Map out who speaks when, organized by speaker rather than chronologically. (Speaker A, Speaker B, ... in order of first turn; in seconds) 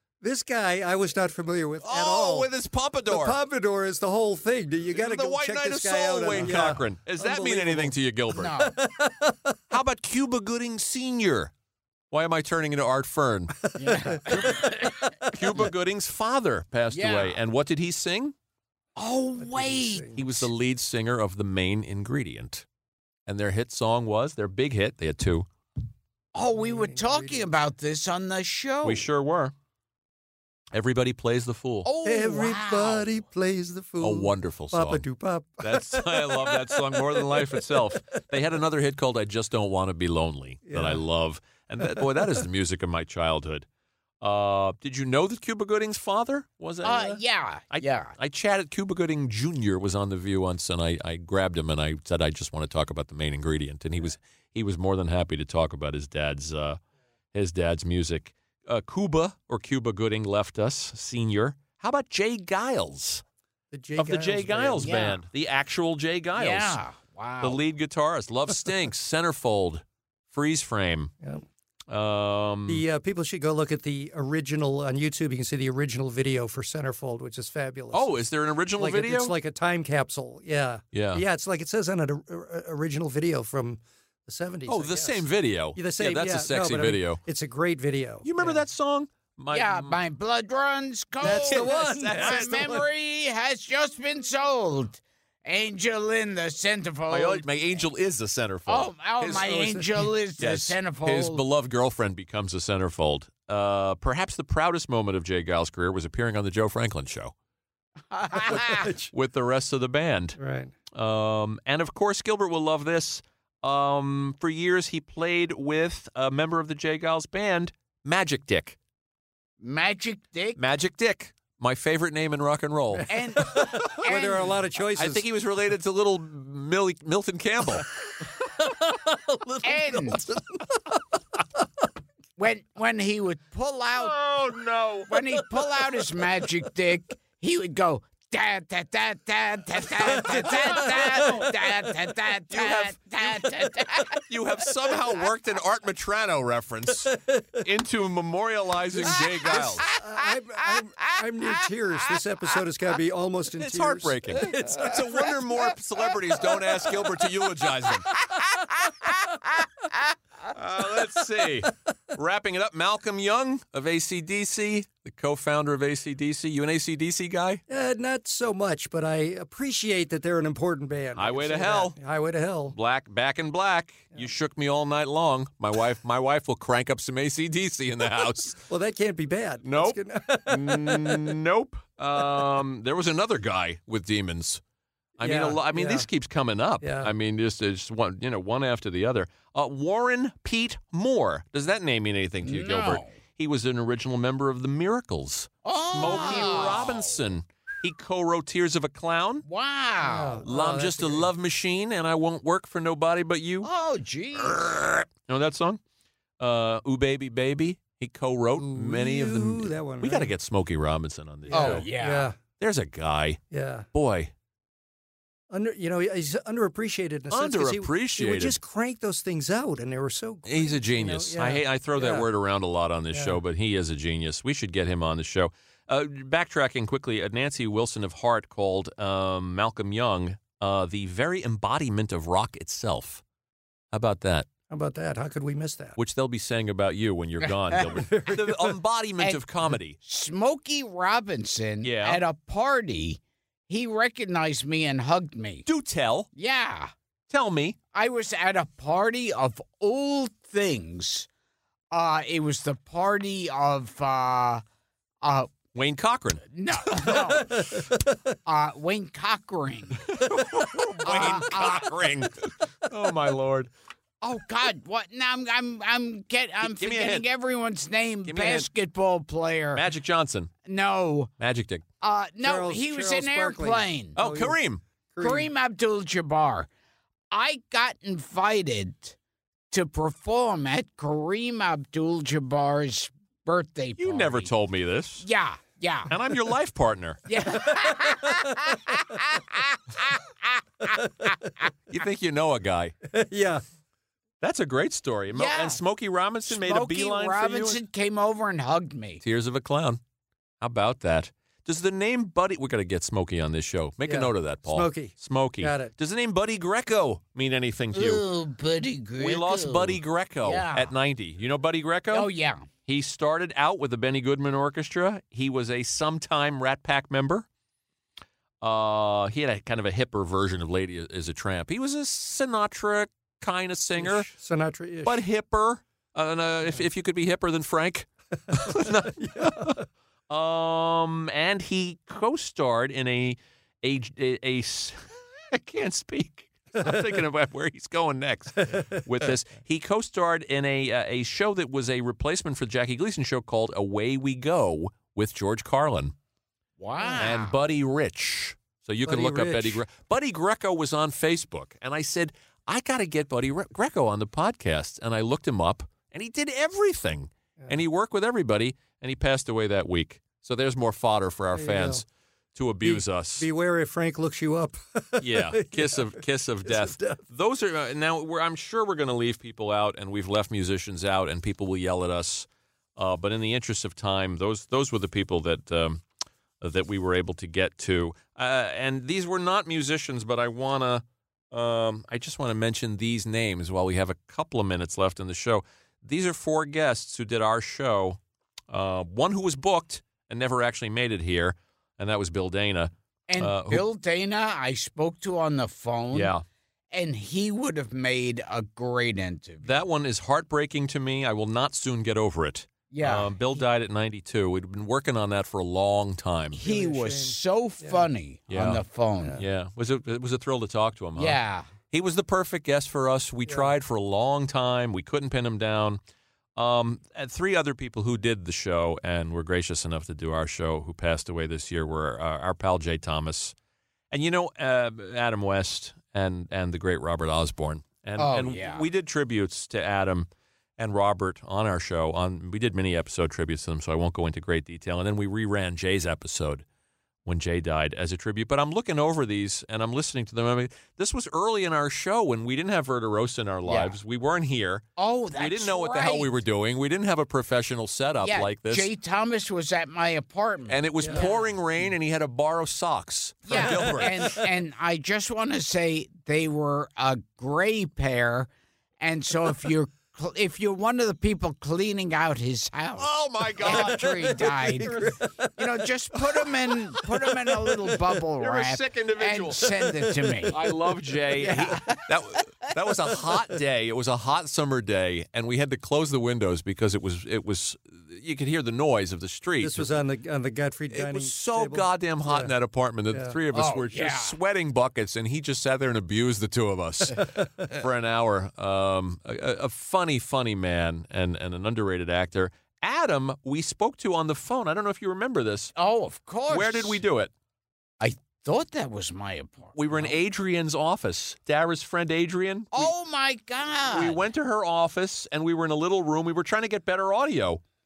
Speaker A: 0.2-2.5, 3.1-8.0, 8.5-9.6, 13.7-14.7, 19.4-20.2, 26.6-27.5, 32.0-38.0, 40.7-41.0, 41.8-42.5, 63.7-65.0, 72.7-78.2, 78.8-85.2, 85.8-88.6, 91.2-92.8, 99.2-100.1, 108.5-109.1, 110.4-110.7, 123.0-125.2, 128.2-131.0, 140.7-141.4, 147.1-147.6, 149.0-155.4, 167.7-172.8, 178.7-181.4, 185.2-186.1, 186.8-187.1, 196.0-196.4, 200.0-201.3, 208.6-210.3, 211.5-212.4, 213.5-213.9, 215.5-222.3, 223.1-223.4, 234.7-236.0, 237.9-238.8, 257.2-258.2, 272.4-274.6, 275.1-275.5, 287.7-288.8, 293.1-293.6, 304.0-305.9, 324.0-325.2, 328.5-329.8, 336.8-337.1, 338.6-339.0, 349.1-349.8, 361.5-362.0, 362.8-367.2, 406.6-408.0, 413.5-413.7, 453.5-454.4, 464.5-465.6, 470.1-470.3, 479.6-482.5, 483.1-483.4
Speaker B: 1.8-3.4, 4.9-8.5, 9.7-11.5, 12.1-13.7, 15.3-18.3, 20.1-22.6, 23.3-25.5, 28.8-29.5, 30.7-31.9, 34.0-35.0, 35.6-43.6, 44.2-47.2, 47.7-56.8, 57.3-63.2, 64.0-66.8, 67.4-71.1, 71.9-72.8, 77.9-79.3, 80.9-81.2, 84.7-87.2, 88.2-90.0, 91.2-92.8, 97.1-99.6, 100.4-107.3, 108.6-110.4, 110.9-118.8, 120.6-124.0, 125.0-127.9, 134.0-135.4, 140.2-141.5, 142.5-149.9, 153.6-158.1, 160.5-167.6, 171.2-172.0, 172.7-178.6, 179.6-184.6, 185.2-199.4, 200.4-203.7, 204.4-205.8, 206.4-211.9, 212.6-213.4, 213.9-214.3, 217.3-218.6, 220.5-233.2, 233.9-234.5, 236.0-240.0, 241.8-242.2, 245.7-246.3, 247.3-247.8, 255.7-256.5, 260.0-263.7, 266.6-267.2, 268.3-268.7, 269.7-270.5, 271.4-271.8, 274.1-274.8, 284.0-285.3, 286.1-287.2, 291.9-292.9, 294.4-297.8, 299.2-300.0, 300.6-308.2, 309.2-312.3, 312.9-317.5, 318.6-324.3, 325.1-346.1, 347.2-363.5, 365.2-376.0, 376.6-388.2, 388.7-393.8, 396.1-396.4, 399.6-406.6, 408.5-408.8, 409.4-416.0, 416.6-423.6, 424.1-436.6, 437.3-444.9, 445.4-448.9, 450.7-454.4, 463.0-465.2, 468.4-469.7, 470.5-479.9, 480.9-495.7, 496.5-497.3, 499.7-502.9, 503.9-507.6
Speaker C: 8.3-8.8, 13.8-15.1, 16.9-17.4, 19.0-20.4, 26.4-29.1, 31.9-33.2, 46.8-48.1, 64.8-65.2, 66.4-67.6, 89.5-97.4, 98.7-101.4, 108.1-108.9, 119.6-120.6, 123.1-124.5, 129.6-130.2, 132.4-134.2, 135.1-144.2, 149.2-150.3, 158.3-159.7, 192.4-193.1, 195.6-197.2, 199.4-200.4, 203.6-204.7, 211.5-212.3, 237.4-237.9, 240.0-245.6, 246.3-246.9, 247.9-251.3, 251.9-254.6, 255.2-255.6, 256.5-257.8, 258.5-260.1, 261.0-262.0, 264.2-269.8, 270.6-271.3, 272.0-274.2, 275.2-276.7, 277.3-279.2, 279.7-284.5, 285.2-286.1, 287.3-291.3, 295.3-295.8, 296.5-299.2, 307.9-310.9, 312.1-312.7, 346.8-347.6, 393.3-396.3, 396.9-399.8, 402.9-403.3, 406.5-409.4, 411.2-411.7, 428.2-428.9, 443.7-443.9, 445.0-446.3, 448.2-451.9, 453.4-464.9, 465.6-470.6, 471.4-472.7, 483.5-484.4, 495.8-497.0, 498.0-500.1, 502.7-504.2